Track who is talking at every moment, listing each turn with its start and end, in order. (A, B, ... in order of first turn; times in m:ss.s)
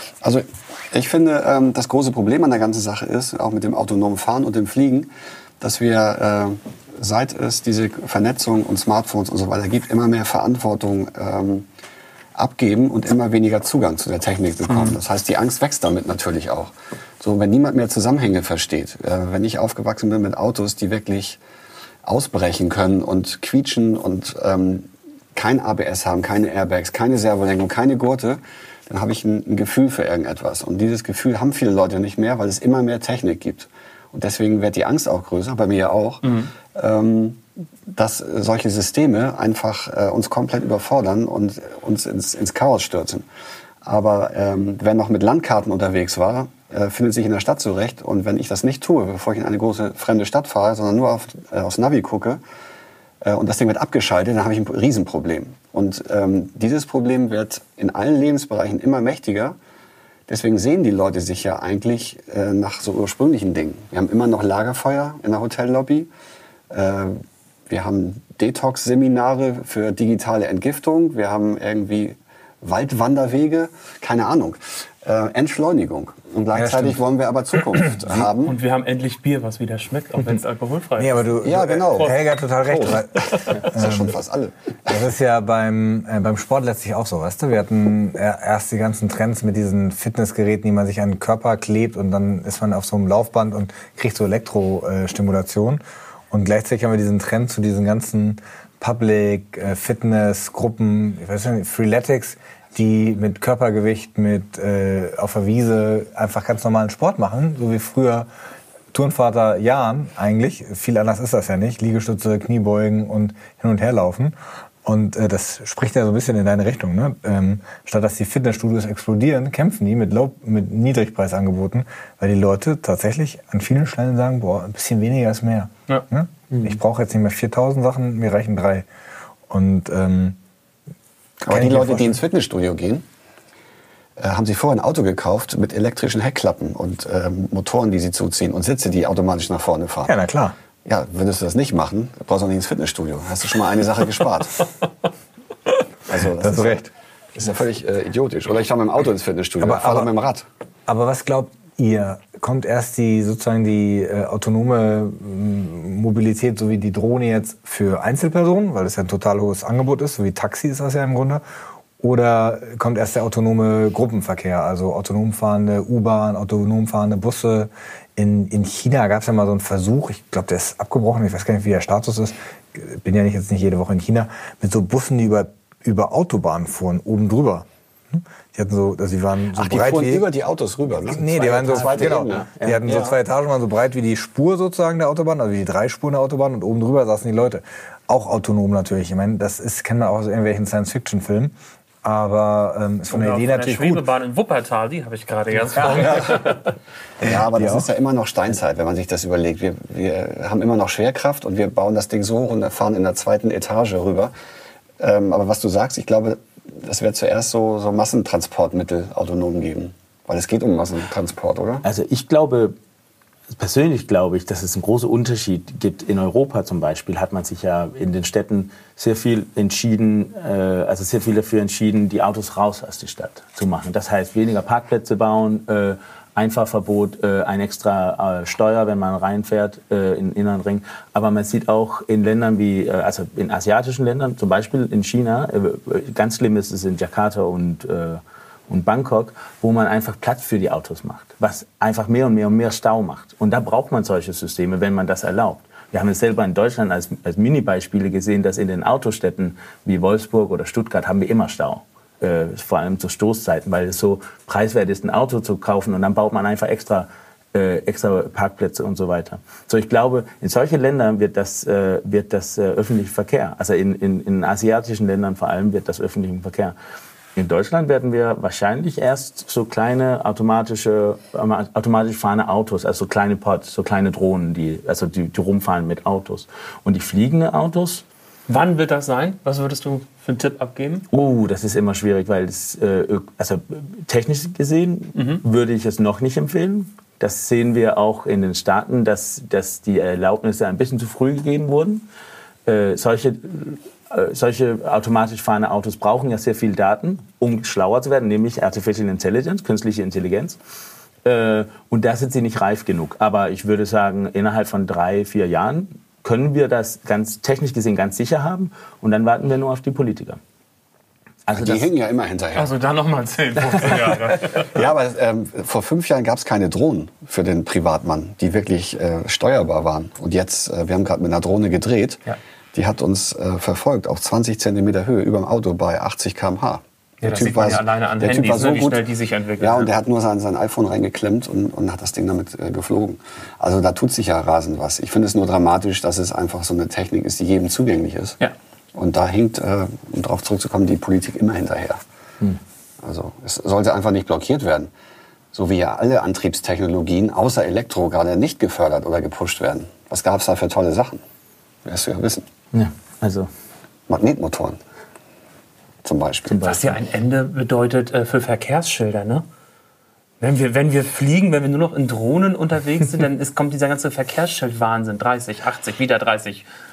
0:00.2-0:05.1 A
0:05.6-0:11.7 A
0:12.4-0:21.4 A
0:14.7-0:15.0 B
0:22.0-0:43.3 A
0:36.2-0:36.5 B
0:43.8-0:52.4 A
0:53.2-0:59.6 A
1:00.3-1:06.1 A
1:06.7-1:18.6 A
1:16.5-1:17.0 C
1:17.6-1:18.3 C
1:18.4-1:21.2 B
1:21.0-1:24.2 C
1:21.4-1:25.0 A
1:24.9-1:48.3 C
1:48.9-2:08.9 C
2:09.5-2:10.4 C
2:11.4-2:13.0 A
2:11.5-2:12.2 C
2:14.2-2:20.1 A
2:20.1-2:20.6 C
2:20.8-2:24.7 A
2:26.1-2:30.5 A
2:26.4-2:26.8 C
2:29.6-2:30.1 C
2:30.9-2:41.4 C
2:42.0-3:00.3 C
2:59.6-3:03.2 A
3:00.9-3:14.0 C
3:01.8-3:02.8 D
3:13.1-3:16.7 B
3:15.7-3:16.5 C
3:17.2-3:24.3 A
3:17.2-3:17.9 C
3:25.0-3:31.8 A
3:31.8-3:32.8 D
3:33.5-4:26.8 D
4:27.4-4:38.0 D
4:38.5-4:41.1 B
4:41.1-4:52.0 D
4:45.2-4:45.4 B
4:52.7-5:00.6 D
5:01.2-5:10.4 D
5:11.5-5:11.9 D
5:11.5-5:12.7 A
5:12.6-5:14.7 B
5:14.6-5:22.2 A
5:22.7-5:29.1 A
5:27.2-5:29.9 B
5:29.6-5:38.4 A
5:39.0-5:42.0 A
5:43.0-5:44.9 A
5:45.5-5:51.2 A
5:51.8-5:52.5 A
5:52.7-5:53.5 D
5:54.1-5:54.8 A
5:56.0-5:56.7 A
5:56.5-5:57.0 D
5:56.6-5:59.4 B
6:00.4-6:06.7 B